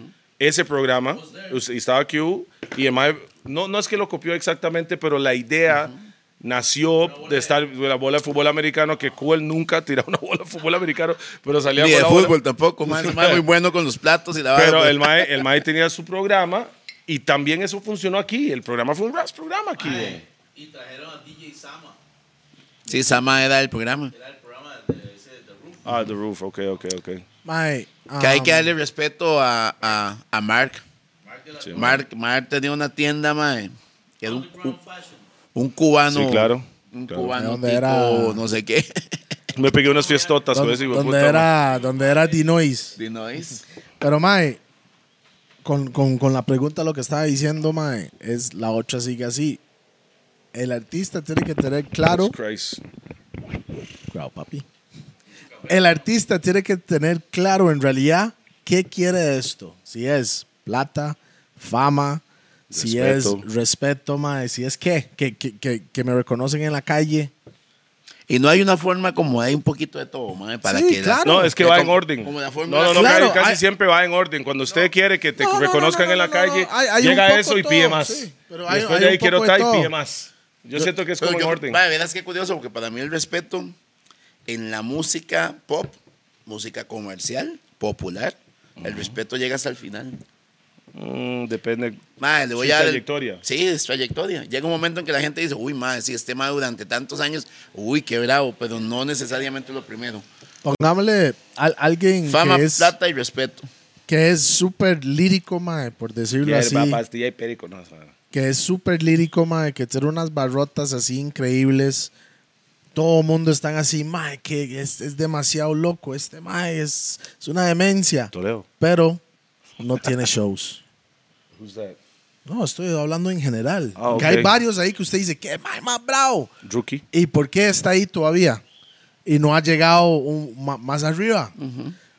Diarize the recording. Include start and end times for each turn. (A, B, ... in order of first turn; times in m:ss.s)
0:00.4-0:12.4 A
0:01.2-0:01.6 B
0:07.0-0:07.7 B
0:11.8-0:15.3 C
0:12.9-0:13.4 A
0:14.6-0:20.2 A
0:19.8-0:22.0 B
0:22.9-0:24.1 C
0:24.1-0:26.1 B
0:25.8-0:27.2 A
0:27.4-0:28.7 D
0:28.2-0:30.8 C
0:31.2-0:32.0 B
0:31.6-0:31.9 A
0:31.8-0:34.8 C
0:34.2-0:35.2 B
0:35.6-0:39.2 C
0:36.1-0:37.3 A
0:37.3-0:38.4 D
0:39.6-0:41.5 A
0:39.7-0:42.5 B
0:40.5-0:43.0 D
0:43.0-0:43.6 C
0:44.0-0:44.6 D
0:45.6-0:49.6 D
0:50.5-0:52.4 D
0:52.1-0:52.8 A
0:54.1-0:54.6 D
0:55.7-1:07.3 D
1:02.7-1:03.4 A
1:08.3-1:13.4 C
1:10.6-1:11.6 D
1:11.2-1:21.8 A
1:12.9-1:13.6 D
1:15.4-1:19.9 D
1:21.2-1:23.8 C
1:24.5-1:30.2 C
1:28.8-1:29.2 A
1:31.0-1:32.0 A
1:32.2-1:40.2 C
1:32.6-1:33.4 A
1:40.6-1:42.9 D
1:42.3-1:43.7 C
1:44.1-1:47.0 D
1:46.4-1:48.1 A
1:48.3-1:52.1 D
1:53.0-1:59.2 D
1:58.3-1:58.7 A
1:59.8-2:00.8 D
2:01.6-2:02.0 A
2:02.5-2:06.5 D
2:04.0-2:04.5 A
2:06.6-2:07.0 A
2:07.1-2:08.6 D
2:09.3-2:11.5 D
2:11.6-2:12.0 C